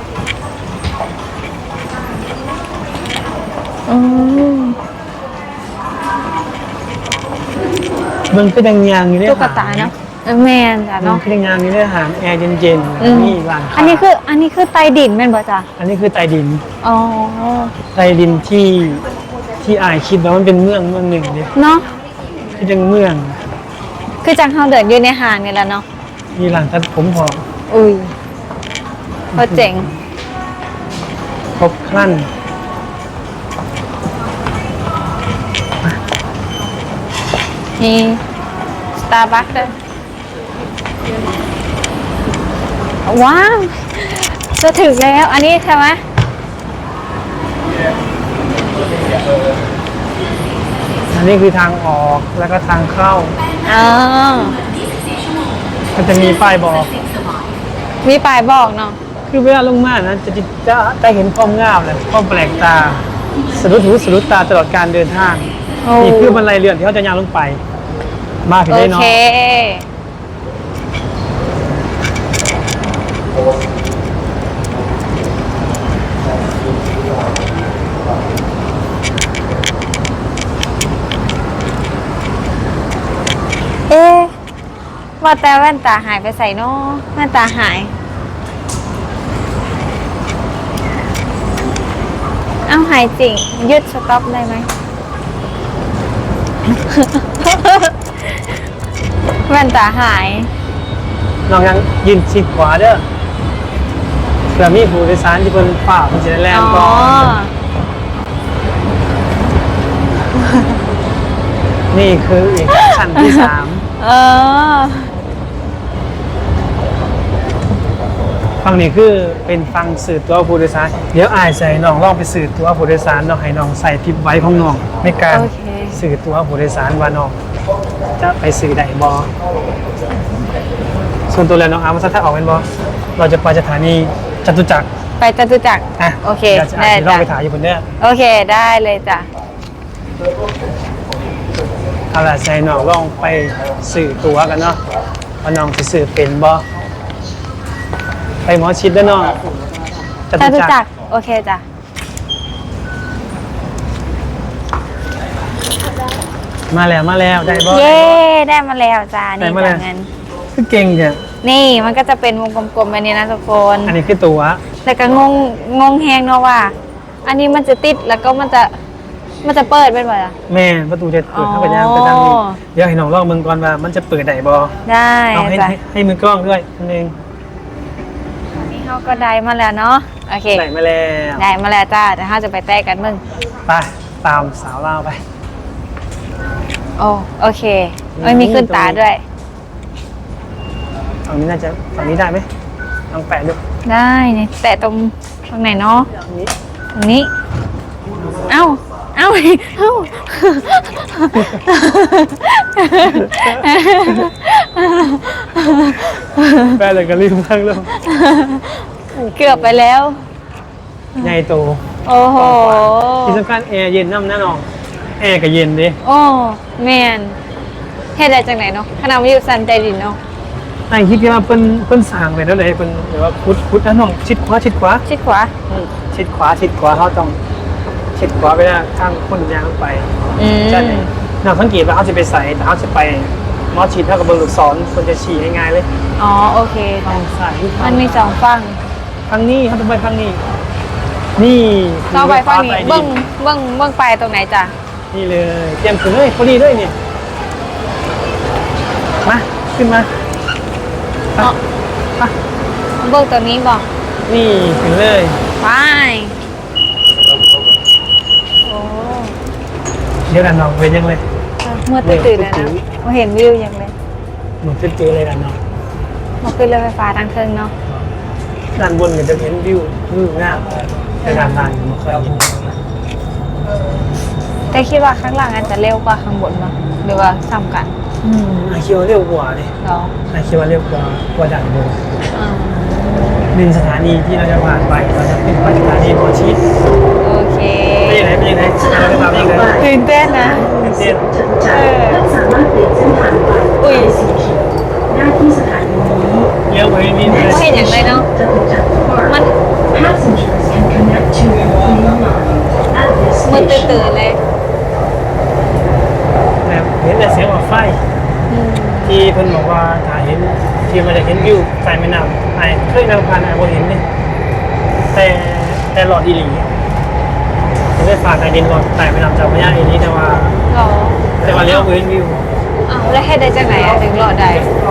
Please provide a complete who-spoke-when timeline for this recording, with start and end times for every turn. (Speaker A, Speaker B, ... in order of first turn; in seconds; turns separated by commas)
Speaker A: 3.9-4.8, Speaker B: 8.3-9.9, Speaker A: 9.2-11.2, Speaker B: 11.0-14.1, Speaker A: 13.0-15.7, Speaker B: 15.8-16.6, Speaker A: 16.8-17.7, Speaker B: 17.9-19.0, Speaker B: 19.6-21.5, Speaker A: 21.6-21.9, Speaker B: 22.6-23.4, Speaker A: 24.2-25.9, Speaker B: 26.4-27.4, Speaker A: 27.7-28.1, Speaker B: 29.3-30.0, Speaker A: 29.4-29.9, Speaker B: 31.6-32.3, Speaker A: 37.8-38.2, Speaker A: 39.0-39.8, Speaker A: 43.0-46.0, Speaker B: 51.1-53.4, Speaker A: 53.6-54.6, Speaker B: 55.9-56.9, Speaker A: 58.0-59.0, Speaker B: 59.3-67.6, Speaker A: 65.8-66.4, Speaker B: 68.4-69.2, Speaker A: 68.7-69.9, Speaker A: 83.9-84.3, Speaker A: 85.2-87.9, Speaker A: 92.7-94.7, Speaker A: 96.8-98.3, Speaker A: 99.5-100.5, Speaker B: 101.5-103.0, Speaker B: 104.5-107.4, Speaker A: 106.5-107.5, Speaker B: 111.9-113.9, Speaker A: 112.7-115.1, Speaker B: 118.6-127.4, Speaker A: 125.3-126.0, Speaker B: 128.2-129.3, Speaker B: 131.3-132.7, Speaker B: 133.2-134.9, Speaker A: 135.2-137.3, Speaker B: 136.0-137.8, Speaker A: 138.0-139.3, Speaker B: 142.1-144.8, Speaker B: 145.4-146.7, Speaker B: 148.5-149.4, Speaker B: 150.3-150.8, Speaker A: 150.4-151.6, Speaker B: 156.7-158.2, Speaker A: 157.5-160.1, Speaker B: 159.4-159.8, Speaker B: 160.5-161.2, Speaker A: 161.4-164.0, Speaker B: 163.9-164.6, Speaker A: 164.8-168.7, Speaker A: 169.4-170.3, Speaker B: 170.5-174.7, Speaker A: 171.3-172.6, Speaker A: 174.8-175.8, Speaker B: 175.3-177.2, Speaker A: 178.6-180.6, Speaker B: 180.5-181.4, Speaker A: 181.4-183.2, Speaker B: 183.7-185.2, Speaker A: 187.0-189.2, Speaker B: 188.1-189.0, Speaker B: 191.3-192.5, Speaker B: 193.1-193.6, Speaker A: 193.9-196.1, Speaker B: 196.2-196.5, Speaker A: 196.9-197.3, Speaker A: 198.5-206.8, Speaker B: 201.3-201.7, Speaker B: 203.0-204.3, Speaker B: 206.7-207.9, Speaker A: 207.9-210.2, Speaker B: 209.1-209.8, Speaker B: 211.2-214.6, Speaker A: 212.0-213.4, Speaker B: 215.2-216.0, Speaker A: 216.0-217.4, Speaker A: 218.2-220.2, Speaker B: 220.9-225.0, Speaker A: 225.1-225.5, Speaker B: 225.7-227.4, Speaker B: 228.1-230.1, Speaker A: 230.4-231.1, Speaker B: 230.7-235.9, Speaker A: 236.2-237.1, Speaker B: 237.0-238.4, Speaker A: 237.8-238.8, Speaker B: 239.3-240.4, Speaker B: 241.4-243.2, Speaker A: 242.1-244.7, Speaker B: 245.1-247.0, Speaker B: 249.2-250.1, Speaker A: 253.0-253.9, Speaker B: 254.2-255.4, Speaker A: 255.6-256.4, Speaker A: 258.6-259.4, Speaker B: 260.3-261.2, Speaker A: 261.6-263.9, Speaker B: 262.0-262.8, Speaker B: 264.6-265.6, Speaker A: 266.4-267.7, Speaker B: 268.8-270.7, Speaker B: 271.2-272.6, Speaker A: 271.2-271.8, Speaker A: 274.7-277.9, Speaker B: 278.2-279.7, Speaker A: 279.8-280.1, Speaker B: 280.3-282.0, Speaker A: 282.3-283.5, Speaker B: 283.5-286.6, Speaker A: 287.2-288.3, Speaker B: 288.0-289.9, Speaker C: 288.8-296.5, Speaker A: 289.8-290.7, Speaker B: 290.4-291.2, Speaker A: 291.6-292.2, Speaker A: 293.8-294.1, Speaker B: 296.6-297.8, Speaker C: 297.2-304.1, Speaker A: 297.3-298.3, Speaker A: 299.2-299.5, Speaker A: 303.4-304.4, Speaker B: 306.6-308.0, Speaker A: 308.5-309.2, Speaker B: 309.0-314.0, Speaker B: 315.1-316.7, Speaker B: 318.0-320.6, Speaker A: 320.7-321.9, Speaker B: 321.4-322.5, Speaker A: 322.9-324.7